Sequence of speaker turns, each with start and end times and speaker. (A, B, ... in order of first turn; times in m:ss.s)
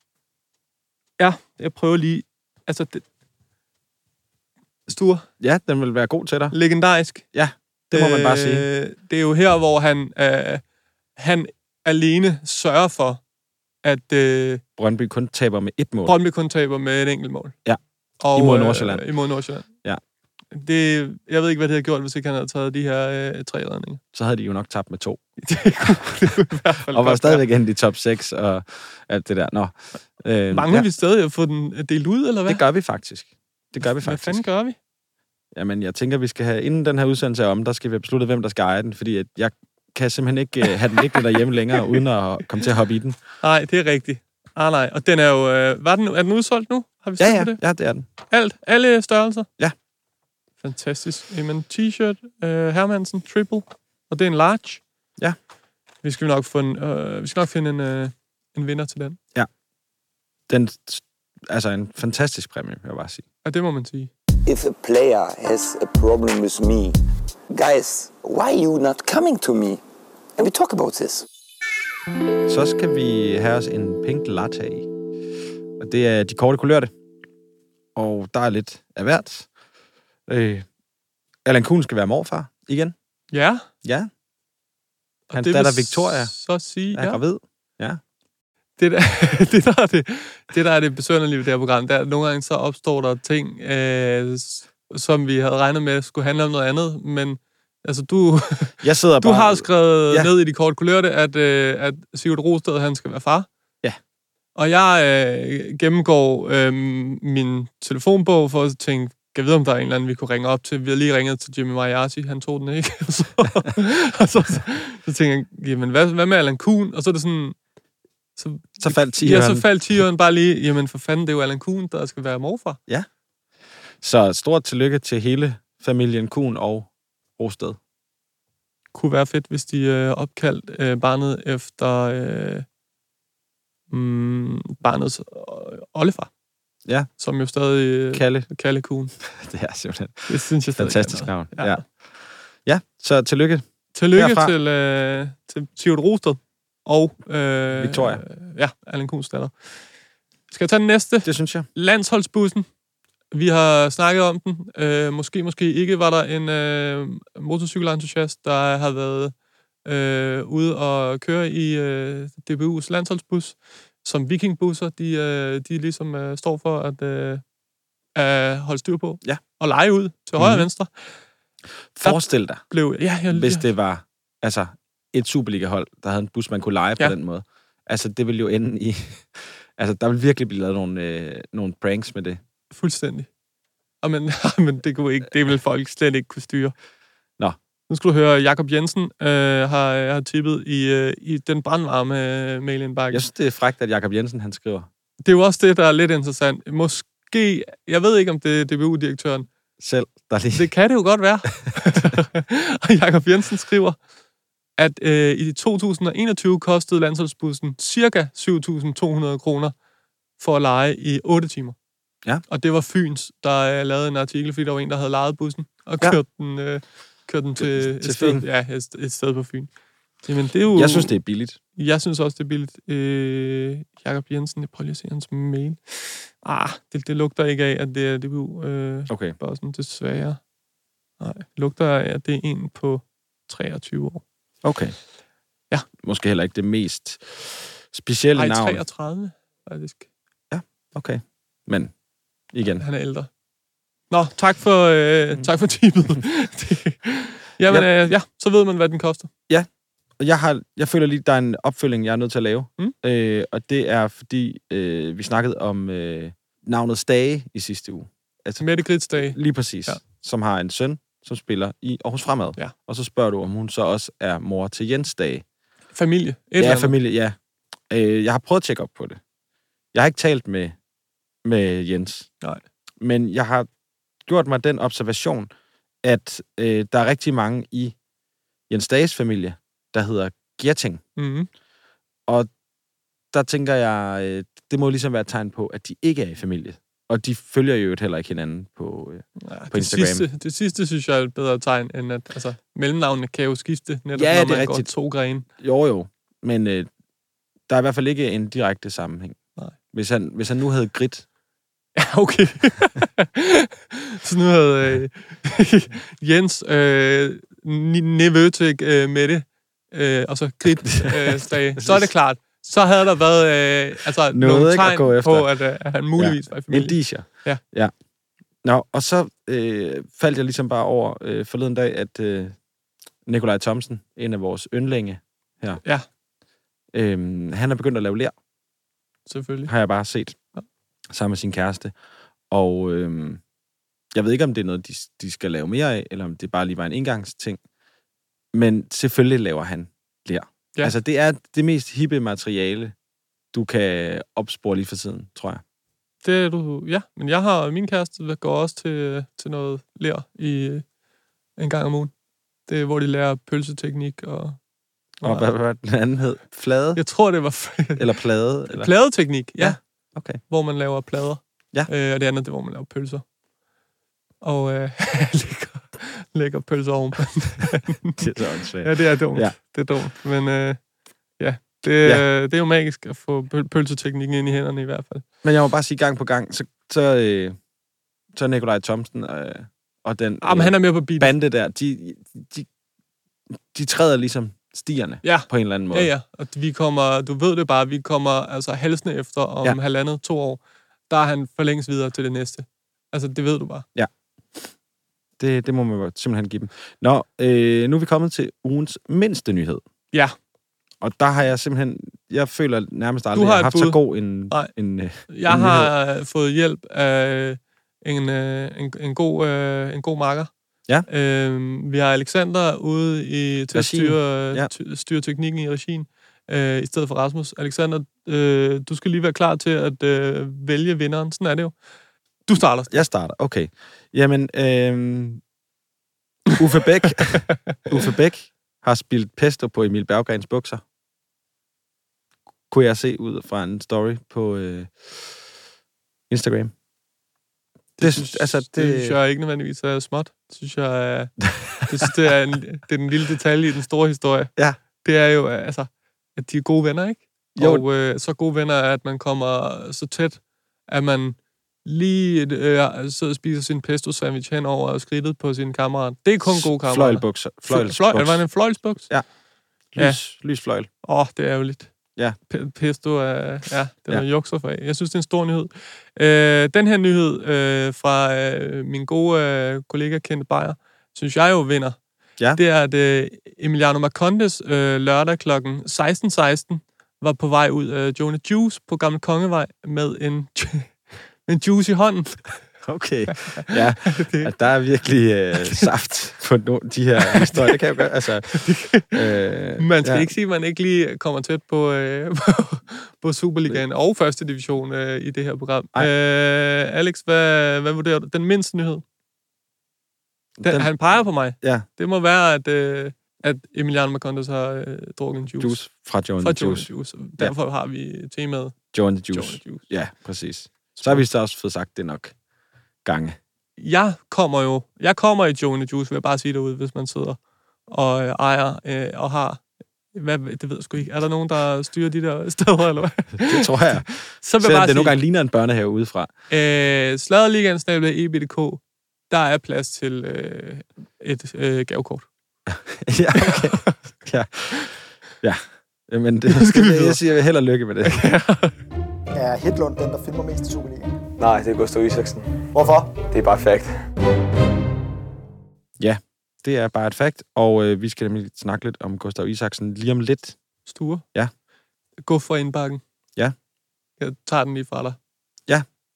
0:01.2-0:03.0 A
0:04.9-0:05.2 A
0:05.4-0:06.6 B
0:06.5-0:07.2 A
0:07.3-0:08.6 B
0:07.9-0:10.6 A
0:11.2-0:13.2 A
0:13.8-0:14.6 A
0:14.8-0:16.2 B
0:16.0-0:17.5 A
0:18.2-0:19.7 A
0:18.3-0:19.1 B
0:20.5-0:24.0 A
0:24.1-0:25.2 B
0:25.4-0:27.4 A
0:26.9-0:30.9 B
0:30.5-0:32.6 A
0:32.5-0:34.4 B
0:34.0-0:34.8 A
0:35.5-0:43.2 B
0:43.4-0:47.6 A
0:47.2-0:48.0 B
0:48.3-0:49.5 A
0:50.6-0:54.8 A
0:56.0-0:59.2 A
1:00.5-1:03.2 B
1:03.4-1:04.1 A
1:04.4-1:07.0 C
1:07.5-1:09.8 C
1:10.4-1:11.2 C
1:12.5-1:14.9 B
1:15.8-1:16.9 B
1:18.0-1:19.5 B
1:20.3-1:20.7 B
1:21.4-1:22.9 B
1:23.3-1:23.6 A
1:23.8-1:24.1 B
1:25.3-1:27.2 A
1:25.3-1:26.4 B
1:26.9-1:28.0 B
1:28.8-1:43.5 A
1:38.8-1:40.3 B
1:44.6-1:57.6 A
1:58.4-2:02.8 A
1:58.8-1:59.7 B
2:04.0-2:07.8 B
2:08.9-2:12.6 A
2:13.9-2:16.3 A
2:17.2-2:19.1 A
2:18.1-2:18.5 B
2:19.3-2:24.5 B
2:20.3-2:21.8 A
2:23.9-2:29.7 A
2:27.7-2:28.2 B
2:30.5-2:32.6 A
2:31.2-2:31.7 B
2:33.3-2:39.3 A
2:39.8-2:47.4 A
2:48.2-2:51.1 A
2:50.4-2:50.7 B
2:51.9-2:52.6 B
2:52.0-2:53.7 A
2:53.3-3:02.4 B
3:02.7-3:03.3 A
3:04.0-3:06.7 A
3:07.9-3:13.2 A
3:13.1-3:14.9 B
3:15.2-3:19.5 A
3:19.8-3:20.7 B
3:20.5-3:24.0 A
3:24.8-3:29.7 A
3:30.4-3:31.8 A
3:32.5-3:39.7 A
3:37.6-3:38.4 B
3:40.2-3:41.1 A
3:40.7-3:41.6 B
3:41.8-3:50.4 A
3:49.1-3:49.4 B
3:51.2-3:54.2 A
3:54.6-3:55.0 B
3:56.0-3:58.8 B
3:58.3-4:00.1 A
4:00.5-4:01.9 B
4:02.5-4:02.8 B
4:02.8-4:03.3 A
4:04.1-4:09.3 A
4:10.2-4:25.4 B
4:18.6-4:20.0 A
4:25.9-4:26.9 A
4:26.6-4:27.4 B
4:27.9-4:29.2 B
4:29.9-4:30.8 B
4:31.4-4:32.3 B
4:33.0-4:33.7 B
4:34.2-4:35.5 B
4:36.0-4:37.9 B
4:38.7-4:41.0 B
4:41.2-4:41.5 A
4:43.3-4:50.2 B
4:49.4-4:55.4 A
4:54.1-4:54.9 B
4:55.6-4:56.9 B
4:57.7-4:59.4 B
4:59.9-5:01.2 B
5:02.0-5:17.6 A
5:10.8-5:12.1 B
5:14.3-5:15.5 B
5:16.2-5:17.9 B
5:18.6-5:22.6 B
5:23.2-5:25.8 B
5:26.9-5:28.3 B
5:29.3-5:29.7 A
5:29.6-5:30.4 B
5:31.1-5:31.9 B
5:32.5-5:33.4 B
5:34.1-5:37.6 B
5:38.5-5:42.9 B
5:43.5-5:45.6 B
5:46.2-5:50.8 A
5:51.6-5:52.1 A
5:52.7-5:54.6 A
5:55.2-5:55.5 A
5:55.2-5:57.0 B
5:57.0-5:58.1 A
5:58.0-6:00.4 B
5:58.7-5:59.8 A
6:00.5-6:03.2 A
6:04.4-6:08.3 A
6:08.2-6:09.6 B
6:08.8-6:10.8 A
6:11.4-6:15.2 A
6:15.4-6:17.6 B
6:18.3-6:22.7 B
6:20.4-6:21.3 A
6:23.7-6:26.1 B
6:25.2-6:33.8 A
6:33.9-6:34.7 B
6:35.4-6:39.8 B
6:41.0-6:45.9 B
6:43.3-6:44.7 A
6:45.3-6:50.5 A
6:51.1-7:01.7 A
6:53.7-6:54.7 B
7:02.5-7:03.0 A
7:02.9-7:05.4 B
7:06.5-7:10.8 B
7:12.7-7:15.4 B
7:16.3-7:16.7 B
7:18.0-7:39.1 A
7:18.0-7:19.2 B
7:27.6-7:27.8 B
7:36.4-7:39.2 B
7:39.9-7:40.9 B
7:41.0-7:41.9 A
7:42.5-7:52.0 A
7:52.5-8:02.6 A
8:02.8-8:10.3 B
8:03.4-8:04.5 A
8:07.2-8:07.8 A
8:08.5-8:09.2 A
8:09.8-8:19.0 A
8:20.6-8:21.9 B
8:20.6-8:25.8 A
8:25.6-8:27.5 B
8:26.4-8:29.8 A
8:28.9-8:32.3 B
8:31.0-8:31.2 A
8:33.0-8:33.4 B
8:33.8-8:39.6 A
8:40.1-8:43.7 A
8:43.4-8:46.3 B
8:44.4-8:45.2 A
8:46.5-8:52.2 A
8:52.7-8:58.3 B
8:53.4-8:54.0 A
8:56.5-8:57.2 A
8:58.1-8:58.8 A
8:59.3-9:01.2 D
9:01.4-9:04.1 E
9:02.7-9:03.1 D
9:06.0-9:10.6 B
9:10.9-9:11.2 A
9:12.2-9:13.0 A
9:14.2-9:15.2 A